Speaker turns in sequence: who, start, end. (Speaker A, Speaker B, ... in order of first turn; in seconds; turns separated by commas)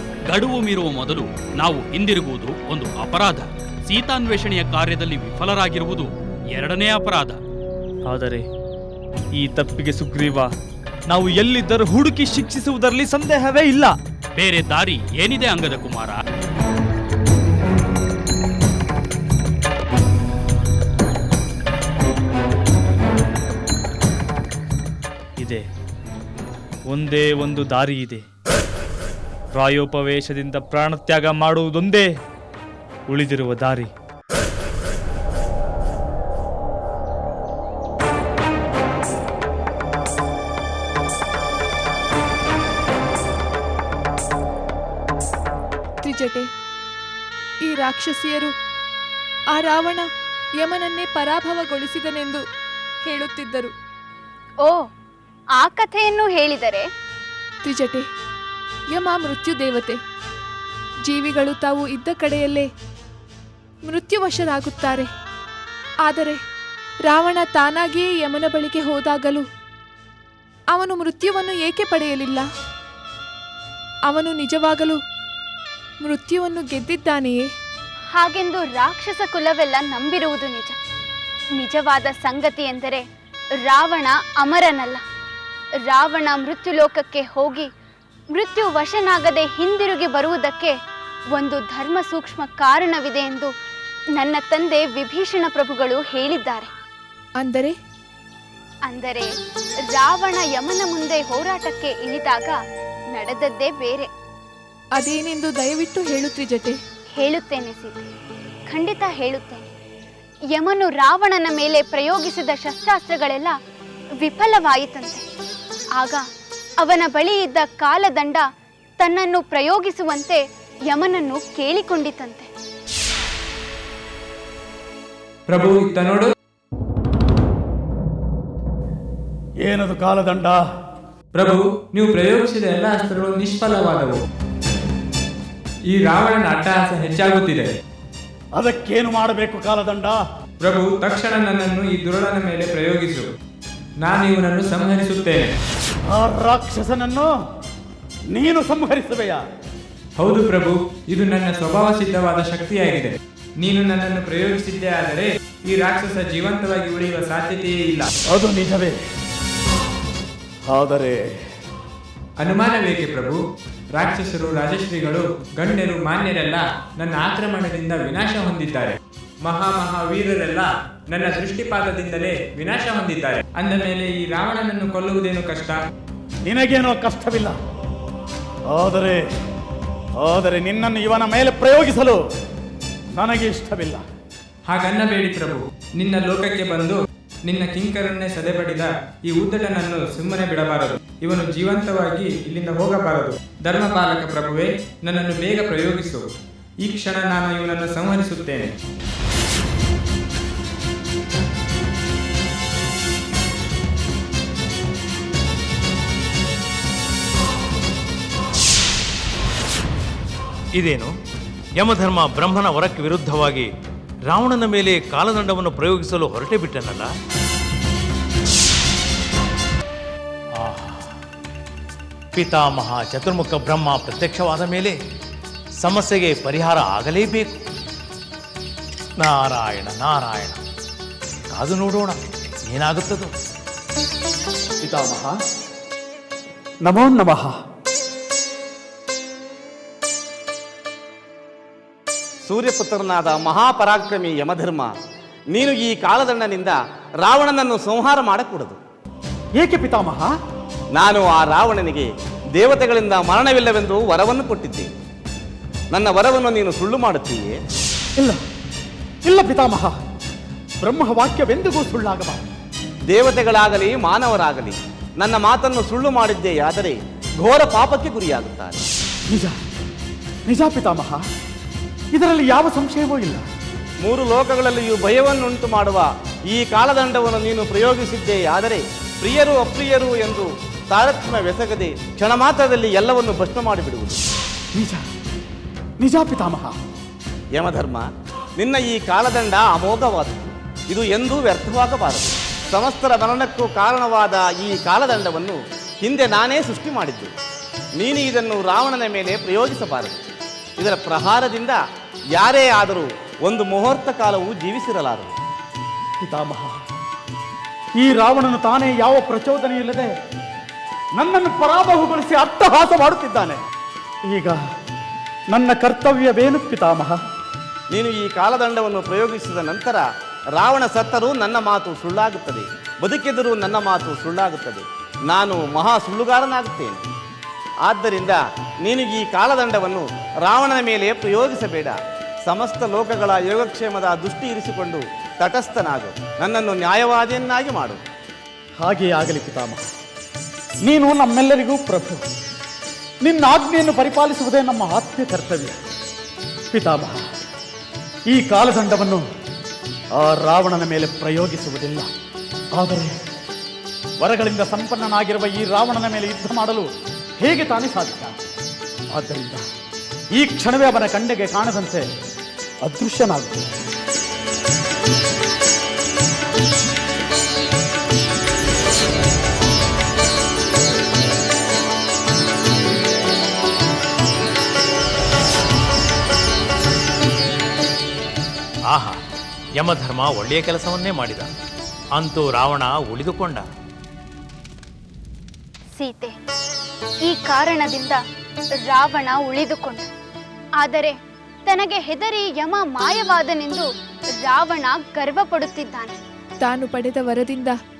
Speaker A: 0.3-7.4, Speaker B: 8.1-8.4, Speaker B: 9.4-10.5, Speaker B: 11.1-13.9, Speaker A: 14.4-16.2, Speaker B: 25.4-25.6, Speaker B: 26.9-28.2, Speaker B: 29.5-32.1, Speaker B: 33.1-33.9, Speaker C: 46.0-46.5, Speaker C: 47.6-48.5, Speaker C: 49.5-50.1, Speaker C: 50.6-52.4, Speaker C: 53.0-53.7, Speaker D: 55.6-56.9, Speaker C: 57.6-58.0, Speaker C: 58.9-60.0, Speaker C: 61.1-62.7, Speaker C: 63.9-65.1, Speaker C: 66.0-66.4, Speaker C: 67.1-69.4, Speaker C: 70.7-72.5, Speaker C: 74.1-75.0, Speaker C: 76.0-77.4, Speaker D: 78.1-80.8, Speaker D: 81.6-83.0, Speaker D: 83.6-85.0, Speaker D: 85.9-87.7, Speaker D: 88.3-90.8, Speaker D: 91.3-93.5, Speaker D: 94.2-96.7, Speaker C: 97.4-97.7, Speaker D: 98.9-99.3, Speaker D: 99.9-102.6, Speaker D: 103.1-104.1, Speaker C: 105.0-106.8, Speaker D: 107.2-108.0, Speaker D: 108.7-109.6, Speaker D: 110.5-113.5, Speaker D: 114.2-115.2, Speaker D: 116.0-116.2, Speaker D: 116.8-118.4, Speaker D: 119.0-122.5, Speaker E: 125.5-126.3, Speaker F: 129.6-130.6, Speaker E: 131.3-134.2, Speaker E: 135.9-137.7, Speaker F: 138.6-140.2, Speaker E: 140.6-143.2, Speaker E: 144.0-145.5, Speaker F: 146.1-147.3, Speaker F: 148.3-149.4, Speaker E: 150.2-158.1, Speaker F: 158.3-158.9, Speaker F: 160.6-161.4, Speaker E: 162.4-163.4, Speaker E: 163.9-175.8, Speaker F: 176.4-177.6, Speaker F: 178.7-179.2, Speaker F: 180.2-182.2, Speaker F: 183.1-184.0, Speaker E: 184.7-196.2, Speaker E: 196.8-198.7, Speaker G: 210.8-211.1, Speaker G: 211.8-213.7, Speaker G: 214.3-217.1, Speaker G: 220.6-221.0, Speaker G: 222.3-224.9, Speaker G: 225.8-227.5, Speaker G: 229.2-230.6, Speaker G: 231.5-232.1, Speaker G: 232.7-233.3, Speaker F: 234.8-235.4, Speaker F: 236.8-237.6, Speaker H: 242.4-244.9, Speaker H: 245.5-248.8, Speaker F: 249.6-250.3, Speaker H: 250.9-254.9, Speaker H: 255.9-257.6, Speaker F: 259.2-259.9, Speaker F: 260.8-262.4, Speaker H: 263.1-268.8, Speaker F: 269.3-269.6, Speaker F: 270.5-271.2, Speaker F: 272.1-273.4, Speaker H: 274.0-284.2, Speaker F: 284.7-285.0, Speaker F: 286.0-286.8, Speaker H: 287.5-288.1, Speaker H: 288.6-297.3, Speaker H: 298.0-300.2, Speaker H: 300.8-301.8, Speaker H: 302.4-305.3, Speaker F: 306.2-306.7, Speaker F: 308.0-310.1, Speaker F: 311.2-313.6, Speaker F: 314.3-314.6, Speaker F: 315.5-317.2, Speaker H: 317.9-327.0, Speaker H: 327.8-338.0, Speaker F: 338.8-339.8, Speaker F: 340.9-342.2, Speaker F: 343.2-345.8, Speaker F: 346.7-347.2, Speaker F: 348.3-349.2, Speaker F: 350.1-352.1, Speaker F: 352.8-353.2, Speaker F: 354.2-356.9, Speaker F: 357.4-358.4, Speaker F: 359.1-359.6, Speaker F: 360.3-362.0, Speaker F: 362.8-363.7, Speaker G: 378.9-379.1, Speaker G: 379.8-381.5, Speaker G: 382.2-383.6, Speaker D: 385.9-386.4, Speaker D: 387.2-388.2, Speaker D: 388.9-390.1, Speaker D: 390.8-393.9, Speaker D: 394.4-396.2, Speaker C: 396.6-397.7